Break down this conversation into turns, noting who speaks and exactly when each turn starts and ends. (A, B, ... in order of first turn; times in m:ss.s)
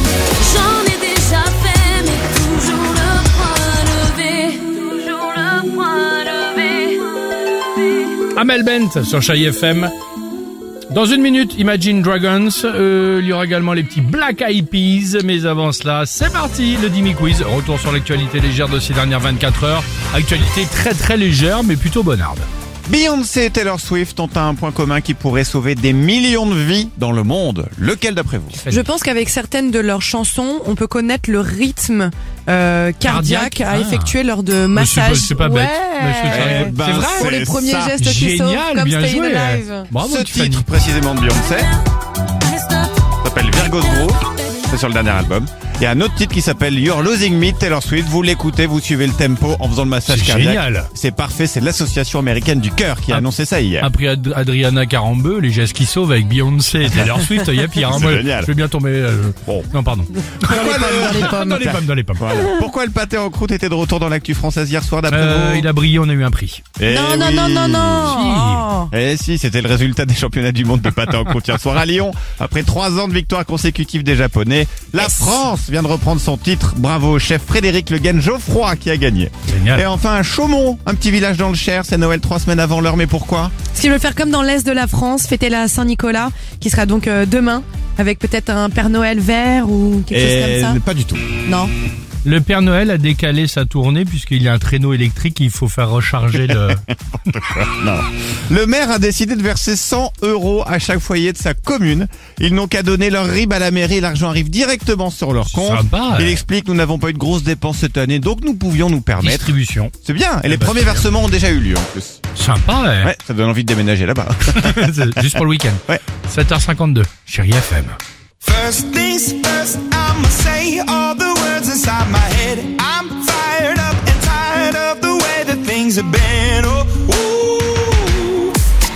0:00.4-0:07.2 A
0:08.3-0:09.9 B
0:10.9-0:22.5 B
0:22.9-0:28.6 C
0:28.6-0:28.9 B
0:28.7-0:39.9 D
0:33.0-0:34.1 B
0:34.7-0:37.3 B
0:36.3-0:38.0 C
0:38.0-0:40.7 B
0:40.0-0:41.7 C
0:43.2-0:53.9 C
0:50.1-0:50.9 B
0:53.8-1:02.3 B
0:57.1-0:58.5 C
1:00.5-1:01.6 D
1:00.5-1:05.7 C
1:05.1-1:06.6 B
1:06.8-1:08.2 C
1:06.9-1:08.9 D
1:08.0-1:08.7 B
1:08.9-1:23.5 C
1:19.5-1:19.9 B
1:23.7-1:30.8 D
1:30.1-1:31.3 C
1:31.4-1:31.7 D
1:32.2-1:36.8 B
1:36.4-1:52.2 C
1:45.4-1:46.4 B
1:49.2-1:49.9 B
1:50.5-1:51.1 B
1:52.4-1:53.1 B
1:53.0-1:56.0 C
1:54.5-1:58.0 B
1:58.4-2:08.2 E